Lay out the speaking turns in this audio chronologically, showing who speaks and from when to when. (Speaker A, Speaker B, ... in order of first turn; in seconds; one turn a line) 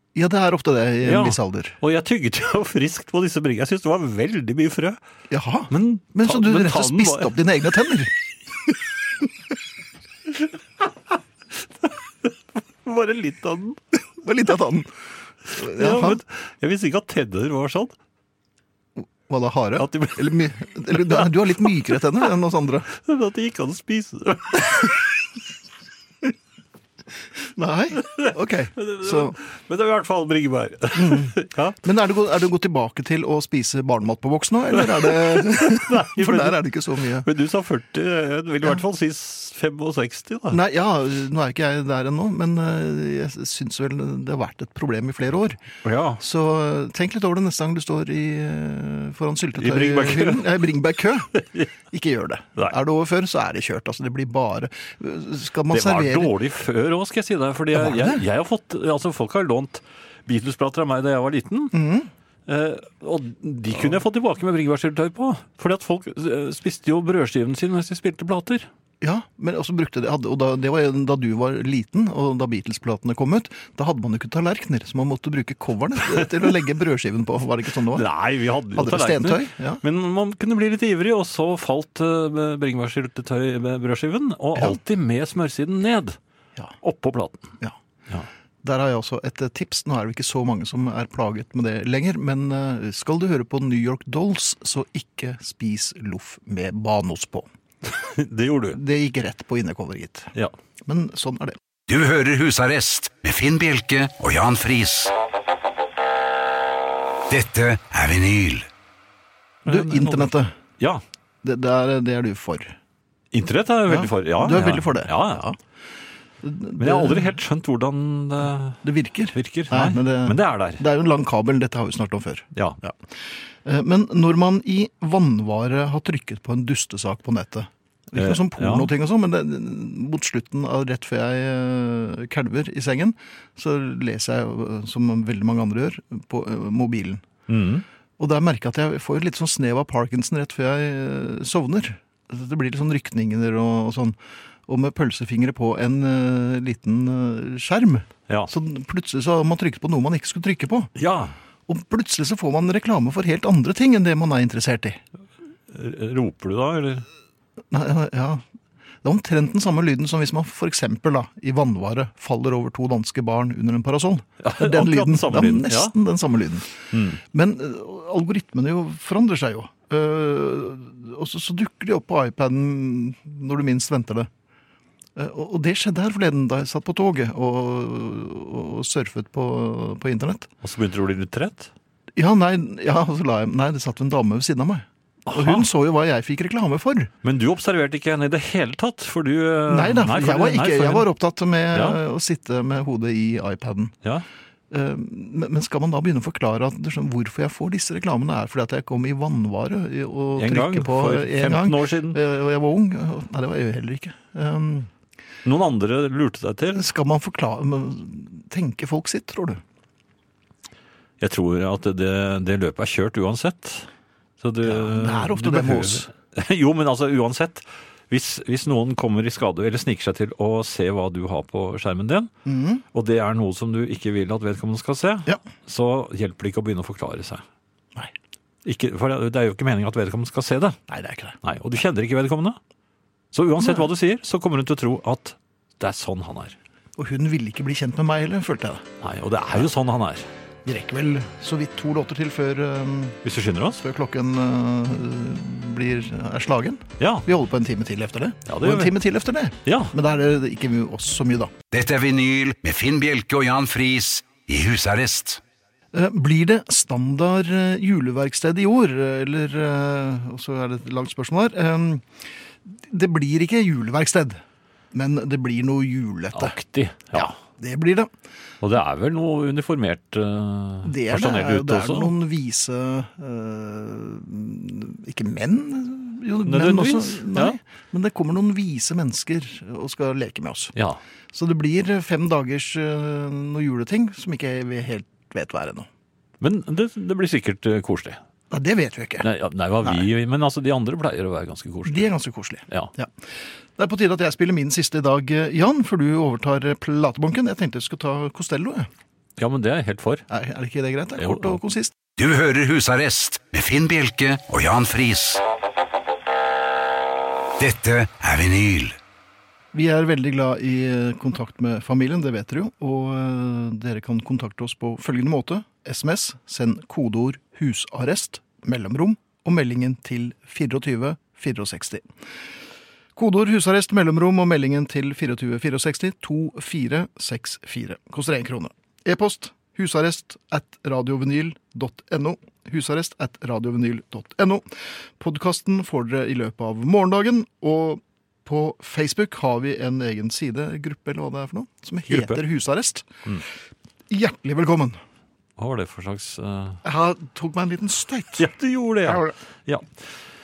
Speaker A: 0.1-1.8
Speaker B: 1.0-5.0
Speaker A: 5.3-8.1
Speaker B: 5.7-7.3
Speaker B: 11.8-13.8
Speaker A: 14.2-14.9
Speaker A: 15.5-16.2
Speaker B: 15.6-17.9
Speaker A: 19.0-22.9
Speaker B: 19.8-20.3
Speaker B: 22.9-25.0
Speaker A: 27.5-29.4
Speaker B: 28.1-31.8
Speaker A: 30.9-37.3
Speaker B: 35.0-36.6
Speaker B: 37.2-40.6
Speaker A: 40.5-45.6
Speaker B: 45.8-46.2
Speaker A: 46.2-56.3
Speaker B: 49.6-50.5
Speaker B: 55.7-61.8
Speaker A: 57.7-58.2
Speaker A: 61.7-62.1
Speaker B: 62.5-68.7
Speaker A: 69.0-78.1
Speaker B: 77.9-86.2
Speaker A: 78.7-79.8
Speaker B: 86.8-87.5
Speaker A: 88.6-97.5
Speaker B: 97.8-98.8
Speaker A: 98.8-100.3
Speaker A: 100.9-101.6
Speaker C: 101.9-105.1
Speaker C: 107.3-108.7
Speaker B: 109.7-111.0
Speaker A: 109.7-110.5
Speaker A: 111.4-112.8
Speaker B: 113.3-115.5
Speaker A: 113.9-115.6
Speaker A: 116.4-117.4
Speaker B: 116.8-118.8
Speaker A: 118.8-123.0
Speaker B: 119.3-120.8
Speaker A: 123.6-137.3
Speaker B: 128.2-128.9
Speaker B: 137.5-137.8
Speaker A: 138.2-150.9
Speaker B: 151.0-151.3
Speaker A: 151.7-155.0
Speaker B: 155.7-157.1
Speaker A: 157.7-158.4
Speaker A: 159.0-166.7
Speaker B: 164.4-165.9
Speaker B: 166.9-167.2
Speaker A: 167.2-174.3
Speaker A: 175.2-180.5
Speaker B: 180.6-181.7
Speaker A: 182.2-187.1
Speaker B: 185.3-185.7
Speaker B: 187.2-191.1
Speaker A: 189.7-193.9
Speaker B: 191.7-192.0
Speaker A: 194.7-204.9
Speaker B: 200.4-202.2
Speaker B: 205.4-206.8
Speaker A: 206.7-209.6
Speaker B: 211.2-213.9
Speaker B: 214.4-222.3
Speaker A: 214.6-216.1
Speaker A: 222.5-222.8
Speaker B: 222.9-227.4
Speaker B: 228.7-230.8
Speaker A: 230.9-231.4
Speaker B: 231.4-232.6
Speaker B: 233.3-236.6
Speaker A: 233.6-233.9
Speaker A: 237.0-238.9
Speaker B: 239.0-240.3
Speaker A: 240.7-243.2
Speaker B: 243.2-243.8
Speaker A: 243.8-251.5
Speaker B: 247.0-247.2
Speaker B: 248.5-248.9
Speaker B: 249.7-249.9
Speaker C: 251.7-255.4
Speaker A: 255.9-264.4
Speaker A: 264.9-266.6
Speaker B: 266.4-267.4
Speaker A: 267.1-268.1
Speaker B: 268.6-272.1
Speaker A: 270.8-280.7
Speaker B: 276.4-277.6
Speaker B: 280.8-281.0
Speaker A: 281.3-285.9
Speaker B: 286.4-288.2
Speaker A: 288.5-289.3
Speaker B: 289.2-292.1
Speaker A: 289.8-290.1
Speaker A: 291.9-298.9
Speaker B: 299.4-300.2
Speaker A: 300.3-301.9
Speaker B: 301.2-301.6
Speaker C: 302.2-305.4
Speaker C: 307.6-309.0
Speaker A: 309.7-322.1
Speaker A: 323.2-343.1
Speaker B: 342.1-342.4
Speaker A: 344.1-345.0
Speaker B: 345.6-346.8
Speaker A: 346.8-348.5
Speaker B: 348.4-349.9